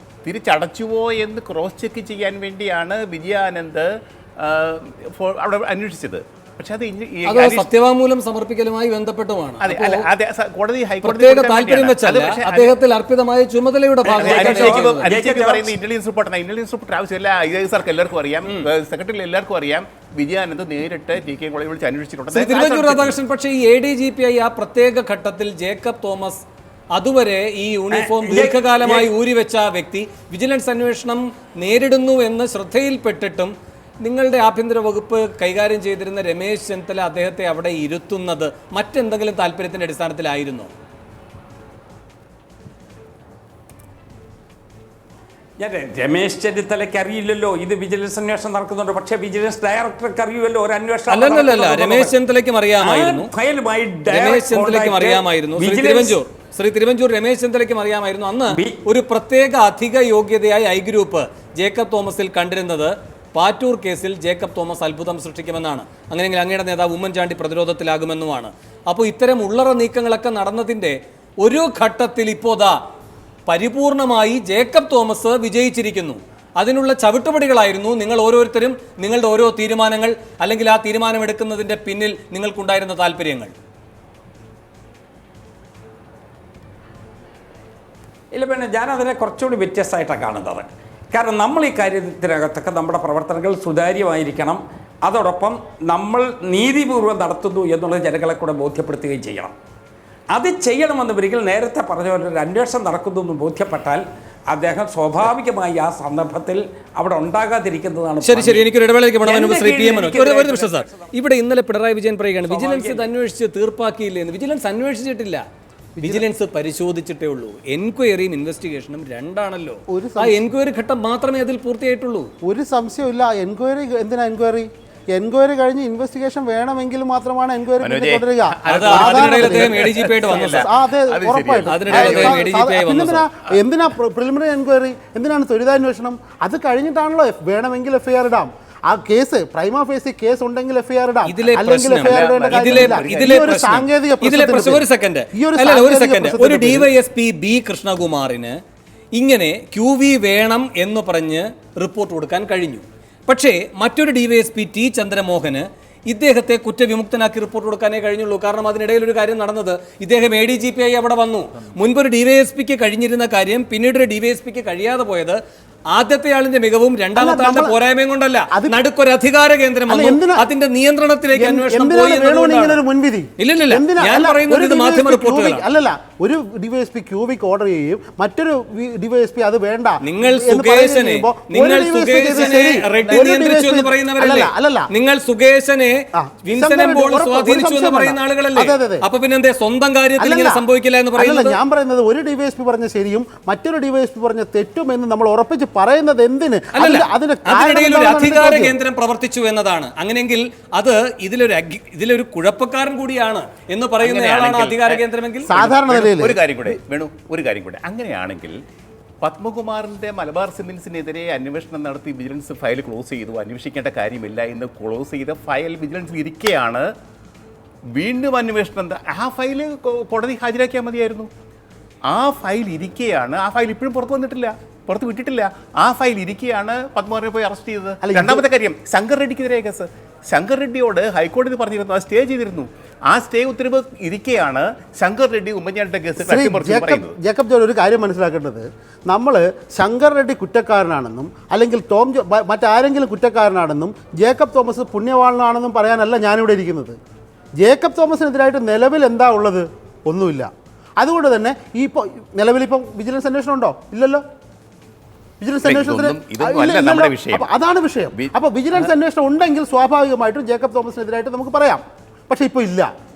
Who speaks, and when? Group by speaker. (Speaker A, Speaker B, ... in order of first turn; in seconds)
Speaker A: 0.2-7.7, 9.6-12.7, 14.1-23.1, 127.8-132.4, 142.0-143.5, 204.0-208.6, 209.2-216.9, 217.9-221.3, 222.1-237.2, 255.6-257.5
Speaker B: 7.2-10.1, 11.0-15.1, 22.3-40.7, 51.1-53.3, 54.1-72.8, 73.5-83.5, 108.2-115.4, 116.0-122.3, 128.7-130.7, 131.7-133.2, 141.2-148.6, 149.1-165.4, 165.9-172.8, 173.4-175.7, 180.0-191.6, 196.7-205.5
Speaker C: 14.1-15.7, 27.9-29.1, 45.6-52.1, 52.8-56.2, 58.5-58.8, 88.3-99.5, 100.3-108.7, 109.2-111.1, 112.5-113.1
Speaker D: 116.0-116.2, 119.9-120.4, 122.4-146.9, 167.2-167.8, 168.5-168.8, 169.9-170.5, 171.3-184.9, 186.1-189.0, 190.2-198.8, 205.5-206.8, 228.0-228.4, 236.2-247.0, 247.6-254.2, 255.4-262.9